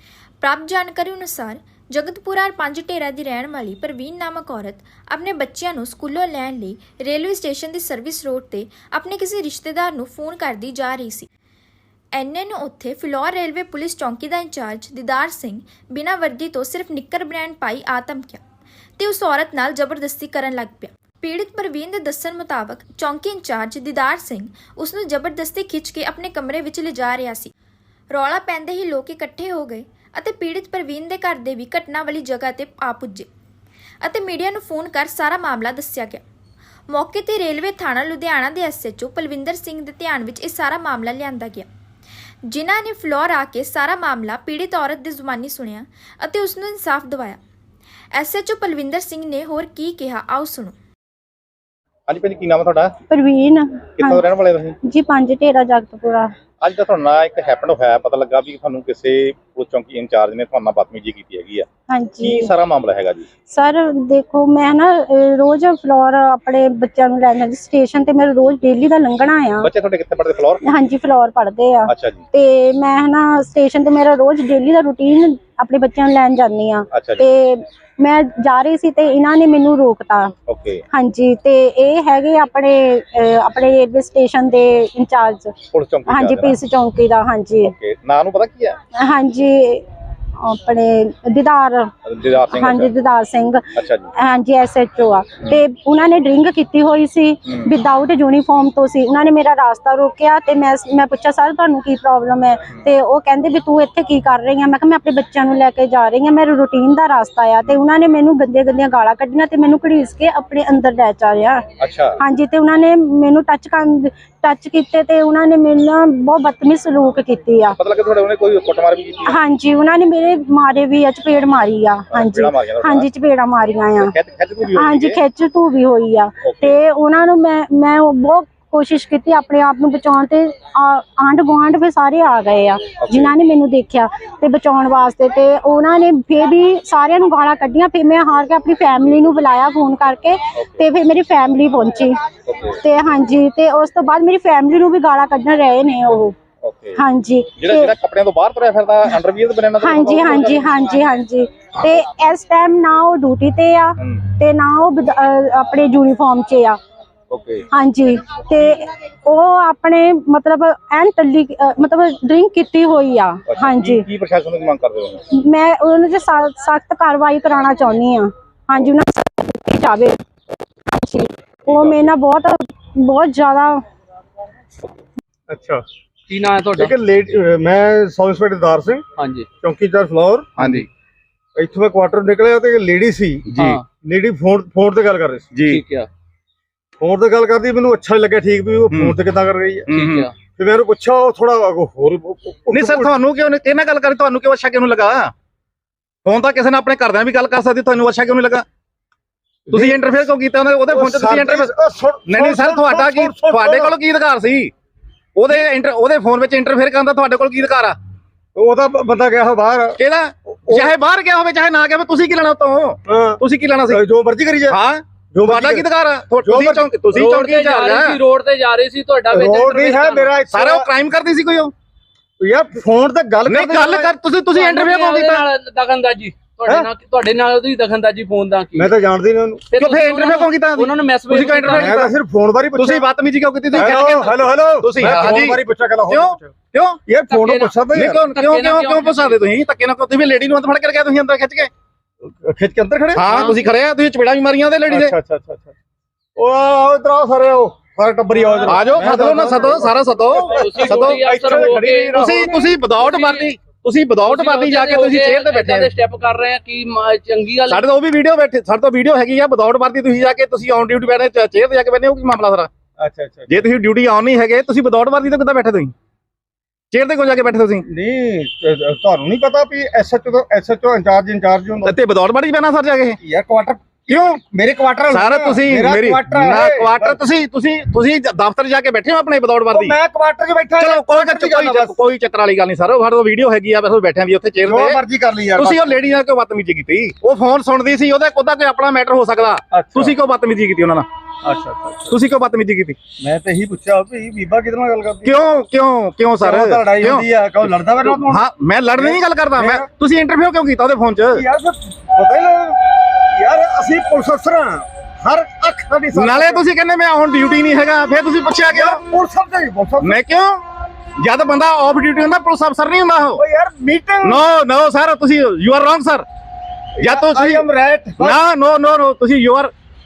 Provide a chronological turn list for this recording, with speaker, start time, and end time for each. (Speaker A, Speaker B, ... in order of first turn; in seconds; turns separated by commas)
Speaker A: 0.4-11.3, Speaker A: 12.1-18.4, Speaker A: 19.0-27.5, Speaker A: 28.1-33.3, Speaker A: 34.0-36.2, Speaker A: 36.9-41.7, Speaker A: 42.5-47.4, Speaker A: 48.1-50.8, Speaker B: 52.1-52.9, Speaker C: 53.1-54.2, Speaker B: 54.0-54.8, Speaker C: 54.9-56.3, Speaker B: 56.6-61.7, Speaker C: 61.9-62.5, Speaker B: 62.2-63.3, Speaker C: 63.5-69.7, Speaker B: 69.6-70.8, Speaker C: 70.6-80.3, Speaker B: 71.9-72.2, Speaker B: 76.9-77.2, Speaker B: 80.5-80.8, Speaker C: 80.9-85.6, Speaker B: 85.7-86.6, Speaker C: 86.1-87.7, Speaker B: 87.6-88.8, Speaker C: 89.1-89.8, Speaker C: 90.5-91.9, Speaker B: 92.0-92.9, Speaker C: 92.5-93.7, Speaker B: 93.8-94.1, Speaker C: 94.2-111.6, Speaker B: 111.8-112.2, Speaker C: 112.2-117.8, Speaker B: 117.8-119.4, Speaker C: 119.3-124.1, Speaker B: 122.1-123.1, Speaker B: 124.0-125.2, Speaker C: 124.7-142.1, Speaker B: 126.4-126.8, Speaker B: 133.0-133.3, Speaker B: 140.6-140.8, Speaker B: 142.5-142.8, Speaker C: 142.8-146.4, Speaker B: 146.6-147.0, Speaker C: 147.0-147.9, Speaker B: 147.6-150.9, Speaker C: 149.8-156.8, Speaker B: 157.3-157.7, Speaker C: 157.7-164.1, Speaker B: 163.5-165.2, Speaker C: 165.4-170.2, Speaker C: 170.9-173.8, Speaker D: 175.5-175.8, Speaker E: 176.3-176.9, Speaker D: 176.8-179.0, Speaker E: 179.2-179.5, Speaker D: 179.6-180.6, Speaker B: 180.6-180.9, Speaker D: 181.6-183.5, Speaker B: 183.5-183.8, Speaker E: 183.6-183.8, Speaker D: 184.0-185.5, Speaker B: 185.5-185.8, Speaker E: 185.7-186.1, Speaker D: 187.0-189.9, Speaker B: 188.9-189.2, Speaker B: 189.9-190.3, Speaker E: 189.9-190.3, Speaker D: 190.6-193.1, Speaker B: 192.7-195.3, Speaker B: 196.3-198.7, Speaker D: 199.7-200.1, Speaker B: 199.7-201.7, Speaker D: 200.9-203.9, Speaker B: 202.3-204.7, Speaker B: 205.4-208.0, Speaker D: 208.6-210.0, Speaker B: 210.0-214.0, Speaker D: 213.1-214.8, Speaker B: 214.7-218.2, Speaker D: 215.3-215.9, Speaker D: 216.4-216.9, Speaker E: 217.1-220.4, Speaker D: 219.3-220.9, Speaker B: 220.4-221.7, Speaker D: 222.4-224.1, Speaker B: 223.5-225.4, Speaker E: 224.5-228.9, Speaker D: 228.8-229.6, Speaker E: 229.7-231.9, Speaker B: 229.8-232.1, Speaker D: 231.7-233.1, Speaker B: 232.8-237.0, Speaker D: 233.7-236.5, Speaker D: 237.1-238.2, Speaker E: 237.3-239.4, Speaker B: 237.9-241.7, Speaker D: 242.2-243.6, Speaker B: 243.2-245.2, Speaker D: 244.9-245.7, Speaker D: 246.4-252.8, Speaker E: 248.5-248.9, Speaker B: 248.7-251.4, Speaker E: 250.3-252.2, Speaker B: 252.1-255.9, Speaker E: 252.9-253.5, Speaker E: 254.2-257.8, Speaker B: 257.7-262.7, Speaker D: 263.0-263.6, Speaker B: 263.5-265.9, Speaker B: 266.9-267.9, Speaker D: 267.9-271.9, Speaker B: 271.8-273.2, Speaker D: 273.2-277.2, Speaker B: 274.1-274.4, Speaker B: 275.1-280.0, Speaker D: 279.7-281.9, Speaker B: 280.8-285.0, Speaker D: 284.6-286.0, Speaker B: 285.6-291.1, Speaker D: 289.7-290.2, Speaker D: 291.4-292.2, Speaker B: 292.1-293.0, Speaker D: 293.2-295.4, Speaker B: 295.2-301.4, Speaker D: 296.4-298.4, Speaker D: 299.0-299.9, Speaker D: 301.3-306.6, Speaker B: 306.1-309.0, Speaker D: 308.7-310.2, Speaker B: 310.0-310.6, Speaker B: 311.2-313.4, Speaker D: 313.4-314.4, Speaker B: 314.2-316.3, Speaker D: 317.0-318.4, Speaker B: 317.0-317.6, Speaker B: 318.2-319.7